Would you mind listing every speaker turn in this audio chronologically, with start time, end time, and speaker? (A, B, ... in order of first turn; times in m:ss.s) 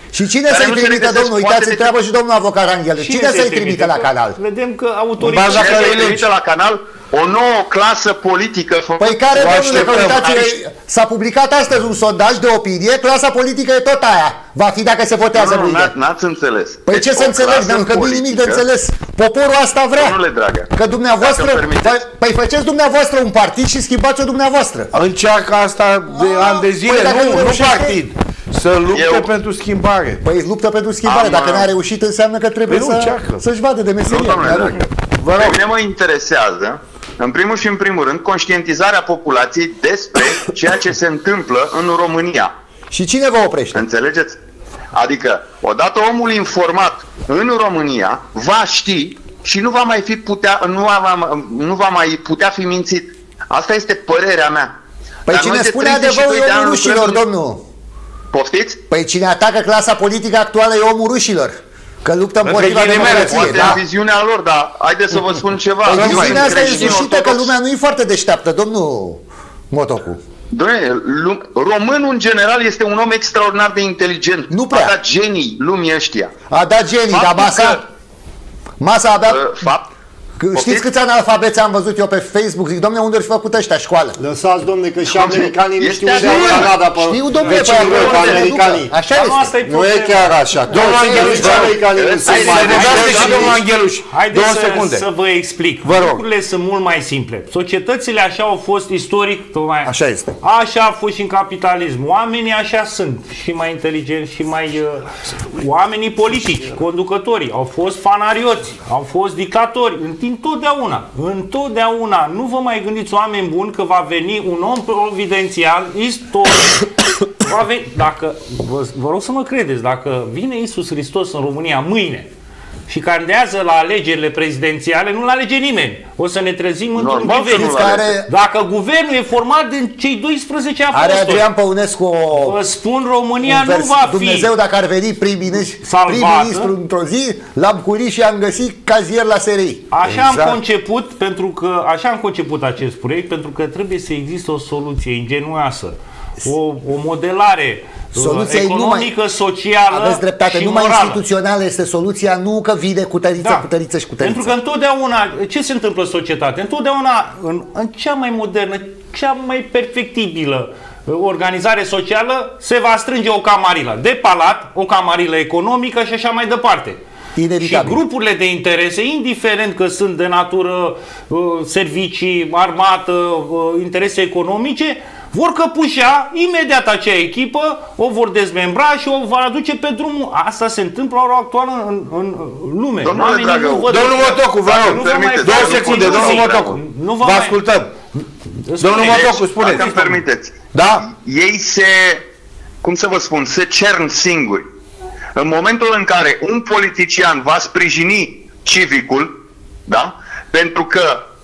0:00.1-0:04.4 A
0:00.5-0:01.9 B
0:03.0-0:06.3 C
0:05.2-0:06.2 D
0:05.4-0:10.3 B
0:09.0-0:15.9 A
0:09.3-0:10.5 D
0:15.3-0:18.6 B
0:16.8-0:20.2 A
0:20.0-0:22.0 B
0:20.7-0:24.9 A
0:24.9-0:30.2 D
0:26.1-0:28.0 A
0:28.9-0:29.3 B
0:30.2-0:34.8 A
0:31.0-0:31.7 B
0:32.7-0:33.4 D
0:34.0-0:42.5 B
0:35.2-0:35.6 D
0:42.9-0:43.8 A
0:43.7-0:44.4 B
0:44.9-0:54.7 B
0:55.3-0:57.6 A
0:55.3-0:57.2 B
0:58.3-0:58.8 B
0:58.9-1:03.8 A
1:02.4-1:03.8 D
1:02.7-1:07.5 B
1:05.9-1:07.0 D
1:05.9-1:10.2 A
1:10.5-1:16.3 B
1:14.5-1:14.9 A
1:16.5-1:17.8 A
1:17.1-1:17.8 B
1:18.8-1:19.7 A
1:19.3-1:19.9 B
1:20.4-1:24.2 A
1:20.5-1:20.8 B
1:24.2-1:28.9 E
1:25.1-1:26.8 B
1:26.8-1:29.5 A
1:27.4-1:28.5 C
1:29.1-1:30.4 C
1:29.6-1:33.5 E
1:30.7-1:35.0 D
1:30.8-1:31.6 A
1:31.4-1:33.6 B
1:32.6-1:33.5 C
1:34.1-1:56.9 C
1:35.8-1:36.2 D
1:39.8-1:40.3 A
1:57.4-2:02.3 C
2:02.9-2:11.4 C
2:06.9-2:08.2 B
2:07.2-2:08.3 A
2:10.9-2:12.6 A
2:12.3-2:14.5 C
2:13.4-2:19.9 A
2:15.8-2:16.7 C
2:19.9-2:31.2 C
2:20.0-2:20.6 D
2:28.1-2:29.1 A
2:29.9-2:34.5 A
2:33.4-2:33.6 C
2:34.2-2:47.0 C
2:47.4-2:48.0 A
2:47.6-3:07.6 C
3:03.0-3:06.8 B
3:03.9-3:07.9 D
3:08.6-3:10.2 C
3:08.8-3:09.9 D
3:09.0-3:12.2 B
3:10.7-3:11.1 D
3:12.8-3:14.6 B
3:15.4-3:19.3 B
3:19.9-3:21.2 B